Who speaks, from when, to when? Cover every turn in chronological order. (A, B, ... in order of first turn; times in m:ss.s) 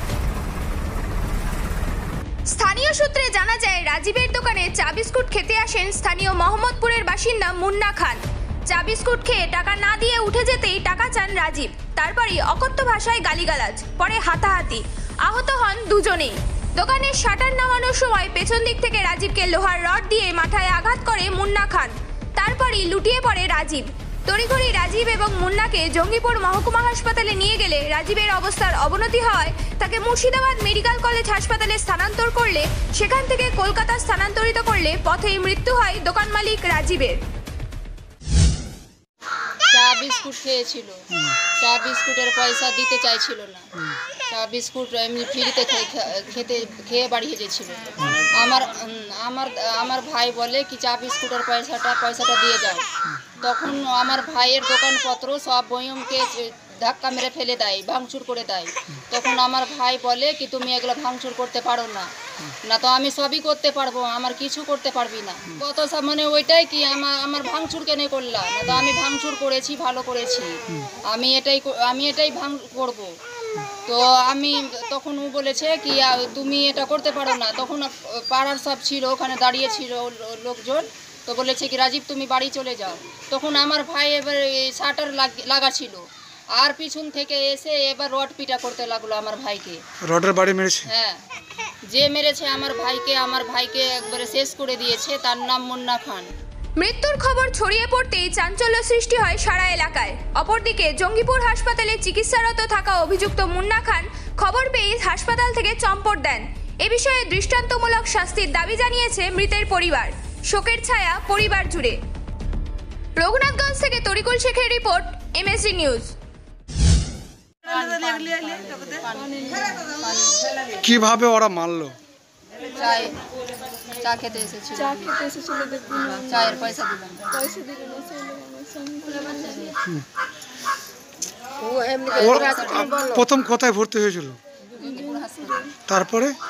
0:02.5-0:37.2 A
0:39.7-0:41.0 B
0:41.6-0:43.7 B
0:44.3-0:52.9 B
0:53.4-1:02.1 B
1:02.6-1:10.5 B
1:11.1-1:13.1 B
1:13.9-1:26.0 B
1:26.6-1:29.8 B
1:30.0-1:30.9 C
1:30.9-1:31.2 B
1:31.9-1:36.3 B
1:36.8-1:52.0 A
1:53.2-1:56.1 A
1:57.6-2:00.4 B
2:00.8-2:02.0 C
2:02.7-2:03.2 B
2:03.9-2:07.6 B
2:05.4-2:06.0 D
2:07.5-2:09.3 D
2:09.1-2:09.7 B
2:11.6-2:13.2 B
2:12.2-2:14.4 C
2:14.8-2:15.7 B
2:15.9-2:16.4 C